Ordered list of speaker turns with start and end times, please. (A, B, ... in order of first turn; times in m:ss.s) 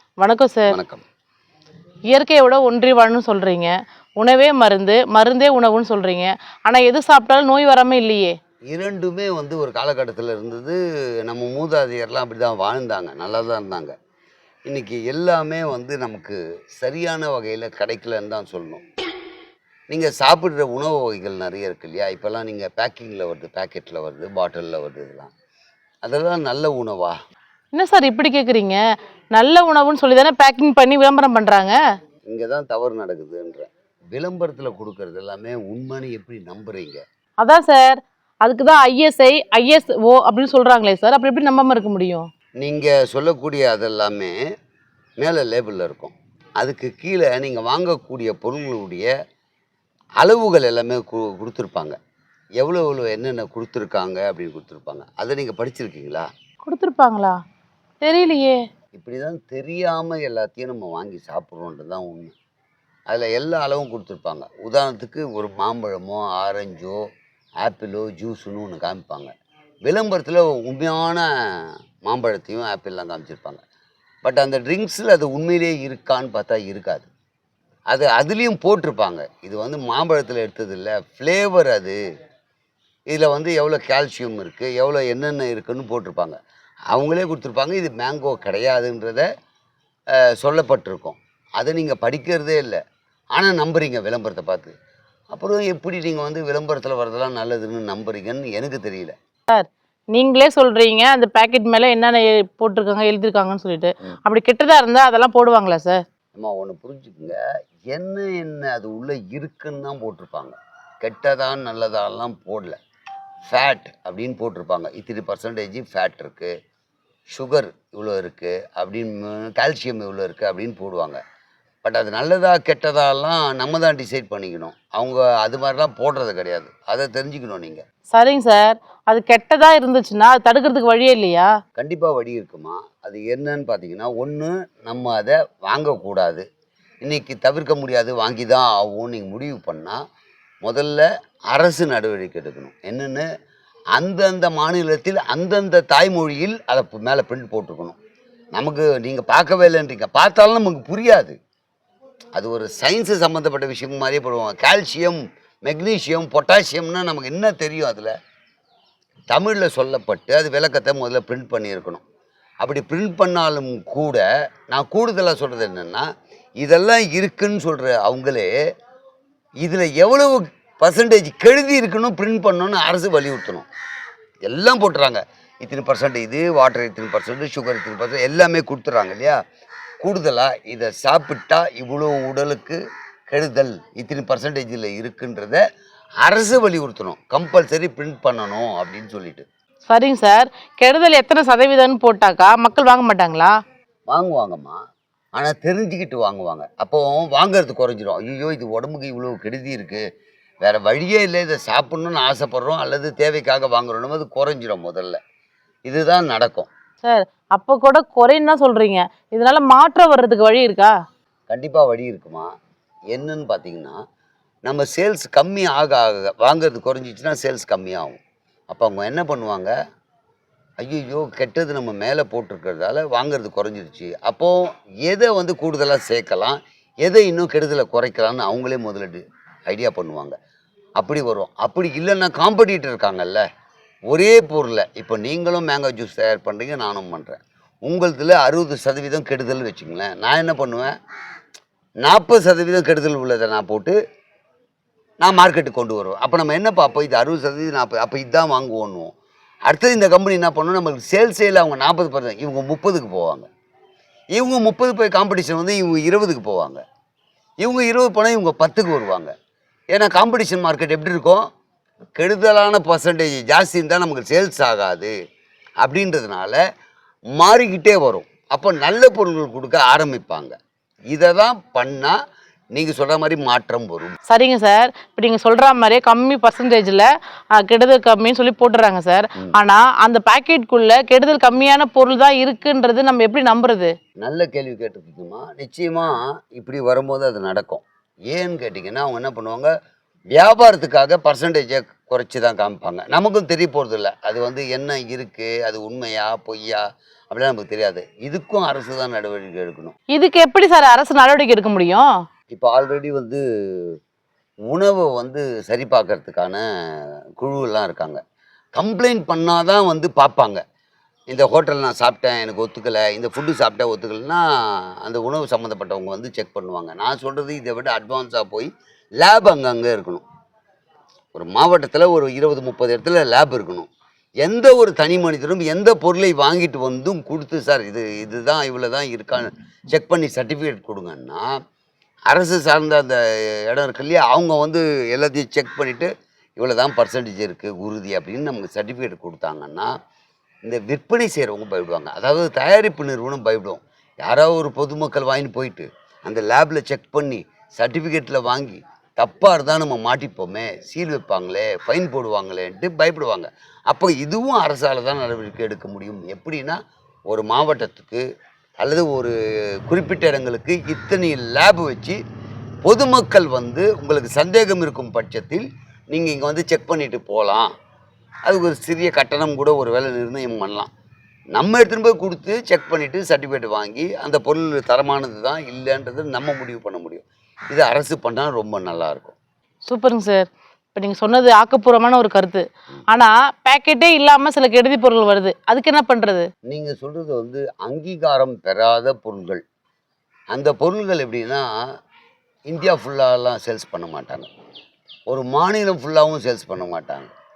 0:00.2-0:00.7 A
0:00.7-0:01.0 B
0:02.1-0:08.3 A
0:08.7-0:13.9 B
0:14.7-0:18.8 B
0:19.9-0:25.3 B
0:26.0-0:27.2 B
0:27.7-0:28.8 A
0:29.3-0:31.8 A
0:32.3-0:37.0 B
0:37.4-0:42.3 A
0:42.6-0:44.4 B
0:45.2-0:49.1 B
0:50.2-0:52.0 B
0:52.6-0:56.3 B
0:56.6-0:57.4 A
0:58.0-0:58.6 A
0:58.9-1:02.3 B
1:03.1-1:07.0 B
1:07.6-1:09.3 B
1:09.9-1:13.6 B
1:14.2-1:17.1 B
1:17.9-1:22.0 B
1:23.1-1:26.4 B
1:26.9-1:29.3 B
1:30.2-1:32.8 B
1:33.3-1:34.7 B
1:35.3-1:39.1 B
1:39.5-1:46.0 A
1:46.4-1:47.4 B
1:47.9-1:52.8 B
1:53.5-1:56.5 B
1:57.3-2:01.2 B
2:01.8-2:07.8 B
2:08.1-2:11.5 A
2:11.8-2:16.4 B
2:17.0-2:20.0 B
2:20.6-2:23.2 B
2:24.0-2:28.0 B
2:28.6-2:31.4 B
2:32.3-2:38.1 B
2:39.3-2:42.0 B
2:42.6-2:46.1 B
2:46.6-2:48.5 B
2:49.6-2:53.7 B
2:54.5-2:59.4 B
3:00.0-3:05.6 B
3:06.2-3:09.4 B
3:09.9-3:13.5 A
3:14.1-3:14.8 B
3:15.4-3:20.0 B
3:20.6-3:25.2 B
3:25.9-3:26.7 B
3:27.0-3:30.9 A
3:31.5-3:32.5 B
3:33.1-3:34.0 B
3:34.7-3:38.2 B
3:38.7-3:39.7 B
3:40.8-3:50.4 B
3:51.0-3:53.4 B
3:54.1-4:01.0 B
4:02.0-4:04.0 B
4:05.2-4:09.1 B
4:09.7-4:13.5 B
4:14.3-4:16.8 B
4:17.6-4:19.3 B
4:19.9-4:21.4 B
4:22.2-4:25.1 B
4:25.8-4:26.6 B
4:27.4-4:30.5 B
4:31.1-4:32.2 B
4:32.7-4:34.2 B
4:34.3-4:43.9 A
4:44.2-4:49.7 B
4:50.4-5:00.0 B
5:00.1-5:02.1 A
5:02.5-5:04.0 B
5:04.7-5:06.6 B
5:07.4-5:08.2 B
5:08.8-5:10.6 B
5:11.3-5:18.7 B
5:19.2-5:20.2 B
5:21.3-5:23.9 B
5:24.4-5:31.5 B
5:32.3-5:39.9 B
5:40.6-5:56.8 B
5:57.3-5:58.2 B
5:58.8-5:59.3 B
5:59.9-6:02.2 B
6:02.8-6:07.7 B
6:08.4-6:10.9 B
6:11.5-6:19.4 B
6:19.9-6:26.5 A
6:26.7-6:29.6 B
6:30.5-6:31.8 B
6:32.7-6:34.5 B
6:35.3-6:37.3 B